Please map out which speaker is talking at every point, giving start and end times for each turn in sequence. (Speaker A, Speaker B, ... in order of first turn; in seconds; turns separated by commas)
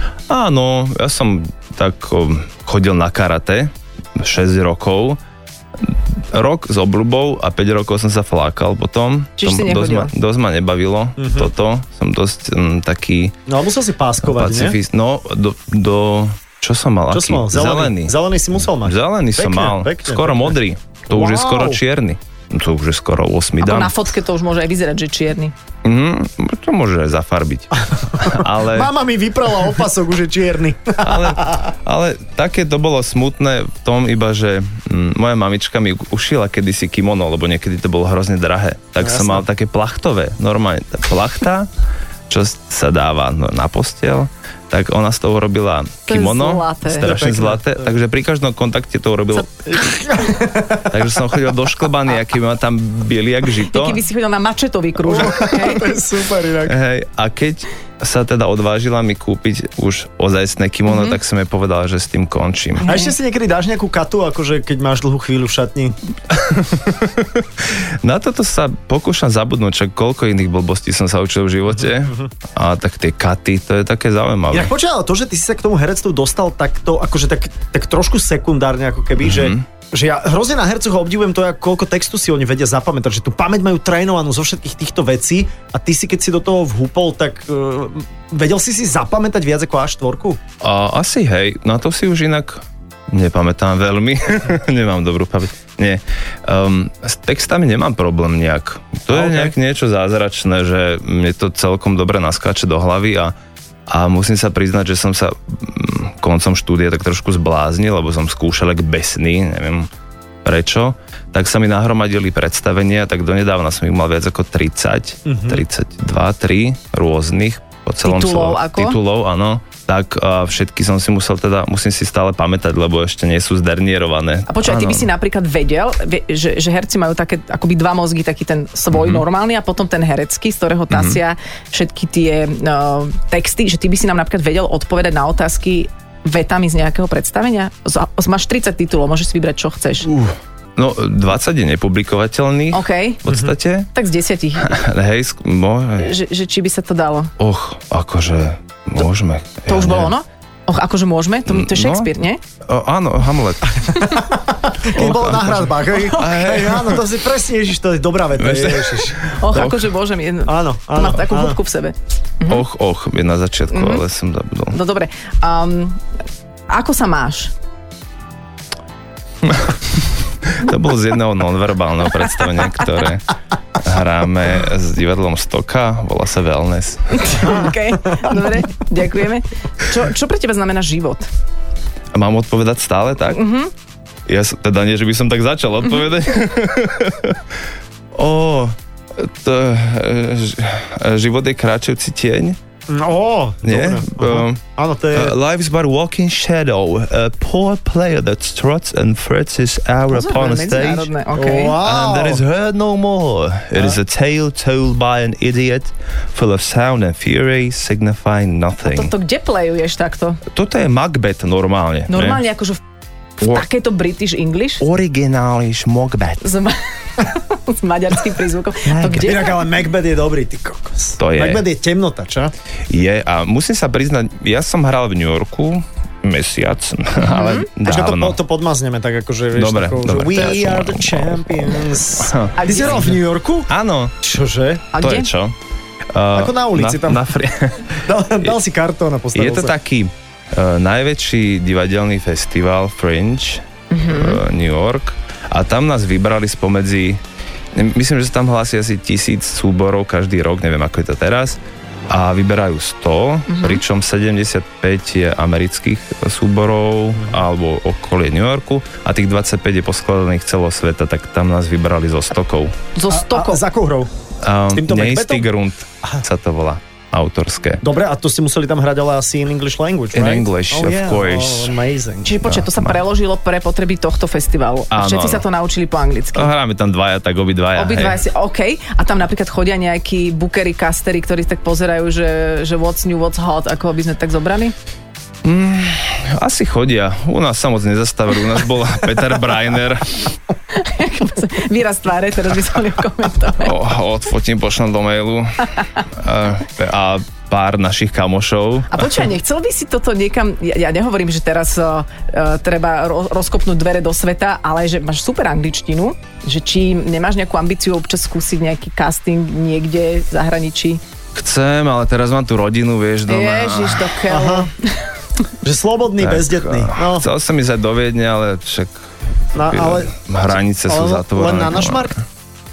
Speaker A: 0.3-5.2, Speaker A: 5.8-13.3, Speaker B: 9.4-10.1, Speaker C: 11.2-11.5, Speaker C: 13.5-14.8, Speaker A: 14.2-18.1, Speaker C: 17.1-20.5, Speaker A: 18.7-24.1, Speaker C: 21.1-21.8, Speaker B: 23.6-25.5, Speaker A: 25.8-28.9, Speaker C: 28.1-31.7, Speaker A: 31.0-41.7, Speaker C: 39.0-39.5, Speaker A: 42.3-49.5, Speaker B: 46.1-47.1, Speaker C: 46.9-47.9, Speaker C: 49.4-51.0, Speaker A: 50.9-54.0, Speaker B: 53.7-55.9, Speaker C: 55.0-56.8, Speaker A: 56.7-62.9, Speaker B: 60.9-61.2, Speaker B: 62.8-63.1, Speaker C: 62.9-66.0, Speaker A: 66.3-74.7, Speaker C: 71.8-72.3, Speaker C: 74.5-90.4, Speaker A: 79.2-79.6, Speaker A: 90.6-103.3, Speaker C: 99.1-99.5, Speaker A: 103.9-109.9, Speaker A: 110.5-125.1, Speaker C: 115.3-115.6, Speaker B: 118.0-119.0, Speaker B: 124.5-140.1, Speaker A: 128.9-129.2, Speaker A: 130.9-131.2, Speaker A: 140.1-143.9, Speaker B: 142.7-143.2, Speaker C: 143.3-143.5, Speaker B: 143.9-144.8, Speaker A: 144.6-146.2, Speaker B: 146.0-147.3, Speaker A: 147.4-150.1, Speaker B: 149.7-152.4, Speaker A: 151.5-152.1, Speaker A: 152.7-153.9, Speaker C: 153.9-159.2, Speaker A: 154.9-157.1, Speaker B: 155.9-156.4, Speaker A: 158.4-159.9, Speaker B: 159.4-162.7, Speaker C: 160.5-161.6, Speaker A: 162.5-164.8, Speaker B: 163.7-164.0, Speaker B: 164.7-166.0, Speaker B: 166.7-167.5, Speaker A: 169.4-177.5, Speaker B: 177.1-181.3, Speaker A: 182.1-183.4, Speaker B: 183.3-183.7, Speaker A: 184.3-187.4, Speaker A: 188.1-192.6, Speaker C: 192.9-195.4, Speaker A: 193.6-194.6, Speaker A: 195.1-201.1, Speaker B: 200.1-201.8, Speaker C: 201.3-202.4, Speaker A: 201.8-209.1, Speaker B: 208.8-210.4, Speaker A: 210.5-212.4, Speaker B: 212.1-212.8, Speaker B: 213.4-214.8, Speaker A: 214.8-216.4, Speaker B: 216.4-219.6, Speaker A: 218.9-219.3, Speaker C: 219.1-222.5, Speaker A: 221.2-221.6, Speaker A: 222.9-228.4, Speaker B: 227.2-227.7, Speaker C: 227.8-233.7, Speaker A: 229.6-233.2, Speaker B: 232.6-233.1, Speaker A: 233.7-234.2, Speaker C: 234.2-234.9, Speaker B: 234.9-235.3, Speaker A: 235.0-235.6, Speaker A: 236.1-238.6, Speaker C: 236.3-237.2, Speaker C: 238.0-239.7, Speaker A: 239.3-247.2, Speaker B: 243.9-244.4, Speaker A: 247.8-262.8, Speaker B: 253.5-253.8, Speaker C: 257.2-257.4, Speaker B: 263.0-263.6, Speaker C: 263.1-264.1, Speaker A: 264.4-267.8, Speaker C: 264.7-265.5, Speaker C: 267.8-272.4, Speaker A: 270.1-271.7, Speaker B: 272.2-276.5, Speaker A: 272.4-273.0, Speaker A: 274.9-275.4, Speaker A: 276.4-278.2, Speaker B: 277.8-284.8, Speaker A: 285.4-290.3, Speaker B: 290.7-293.8, Speaker A: 293.6-299.2, Speaker B: 298.9-311.0, Speaker A: 311.4-314.2, Speaker B: 313.3-315.1, Speaker C: 314.3-314.7, Speaker C: 315.6-317.3, Speaker A: 316.2-319.0, Speaker C: 319.5-320.1, Speaker A: 319.7-322.1, Speaker C: 320.9-322.1